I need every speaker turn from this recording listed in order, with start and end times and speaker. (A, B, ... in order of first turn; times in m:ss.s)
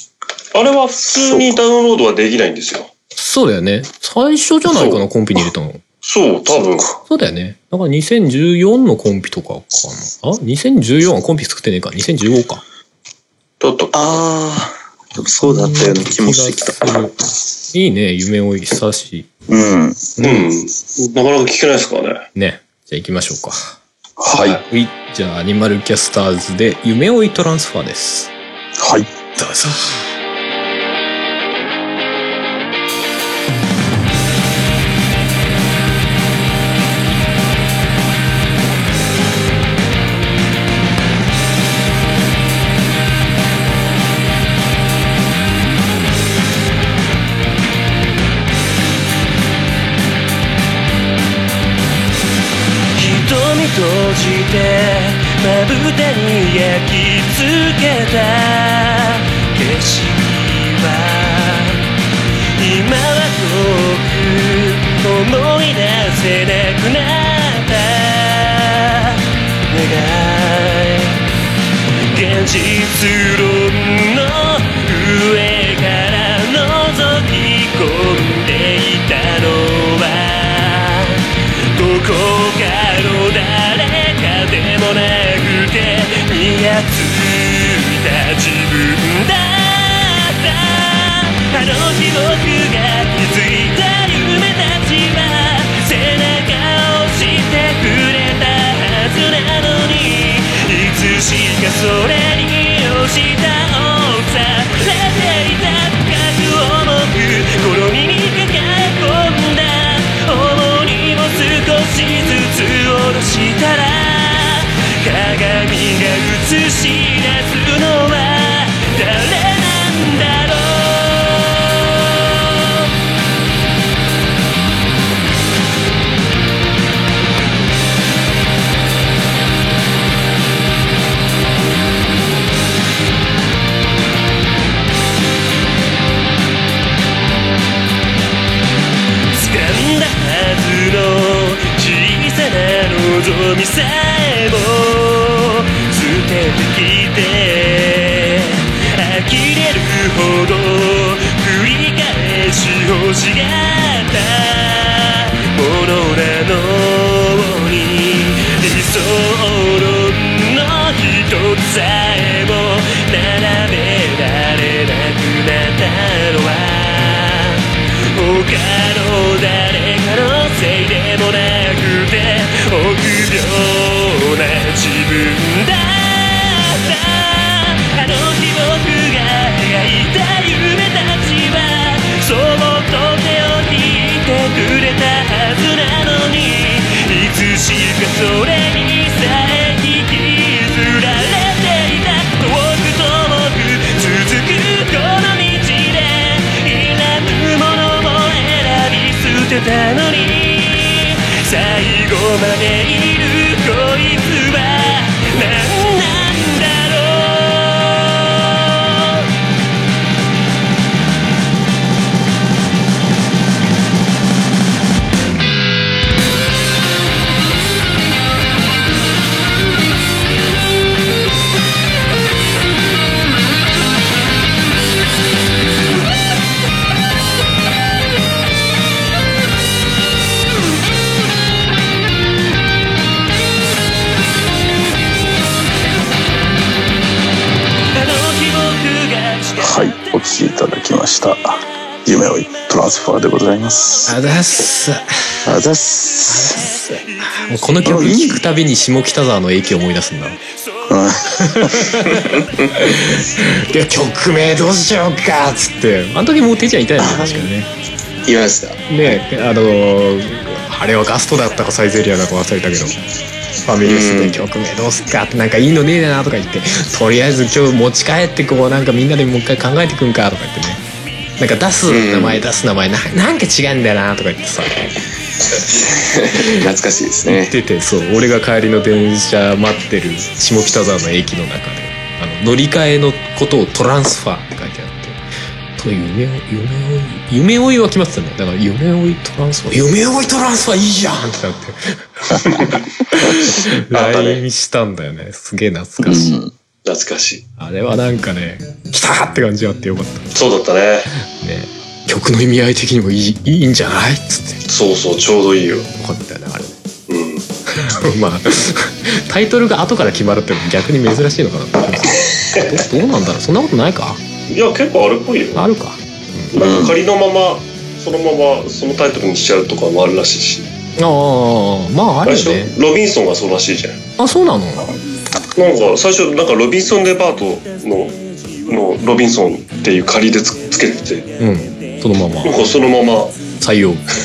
0:00.5-0:02.9 A
0:03.2-0:05.8 B
0:04.7-0:05.0 A
0:06.0-0:06.9 A
0:07.0-0:12.6 B
0:13.6-0:14.2 A
0:13.9-0:17.0 C
0:15.4-0:17.1 B
0:17.7-0:19.3 B
0:19.5-0:20.2 D
0:20.2-0:22.2 A
0:22.3-0:23.8 B
0:24.2-0:24.6 D
0:24.5-0:28.3 B
0:28.8-0:29.2 D
0:29.4-0:30.1 B
0:52.9-1:01.9 E
1:02.6-1:11.2 E
1:12.1-2:02.8 E
2:19.3-3:29.2 E
3:57.9-3:59.8 E
3:59.6-4:04.2 D
4:04.0-4:05.4 B
4:05.4-4:06.6 D
4:06.3-4:10.4 B
4:07.1-4:07.5 E
4:07.8-4:08.4 D
4:10.9-4:12.0 D
4:11.2-4:17.7 B
4:17.0-4:17.5 C
4:18.3-4:18.8 C
4:18.9-4:23.0 B
4:23.6-4:30.8 B
4:23.8-4:24.4 C
4:31.4-4:34.8 B
4:31.9-4:32.4 C
4:35.5-4:37.5 C
4:37.2-4:45.2 B
4:45.8-4:56.4 B
4:53.9-4:54.4 A
4:56.0-4:56.5 D
4:56.8-4:57.4 A
4:57.6-5:00.3 B
5:00.3-5:01.1 A
5:01.3-5:04.6 B
5:04.7-5:05.9 A
5:05.9-5:06.8 B
5:07.1-5:07.4 A
5:07.7-5:14.2 B
5:12.4-5:12.6 A
5:14.5-5:15.7 A
5:15.5-5:16.5 B
5:16.5-5:20.7 A
5:16.6-5:17.0 D
5:21.0-5:22.7 B
5:22.2-5:24.0 A
5:24.2-5:25.0 B
5:25.5-5:28.2 A
5:28.7-5:31.3 A
5:31.4-5:32.6 B
5:32.4-5:33.4 A
5:33.6-5:34.0 B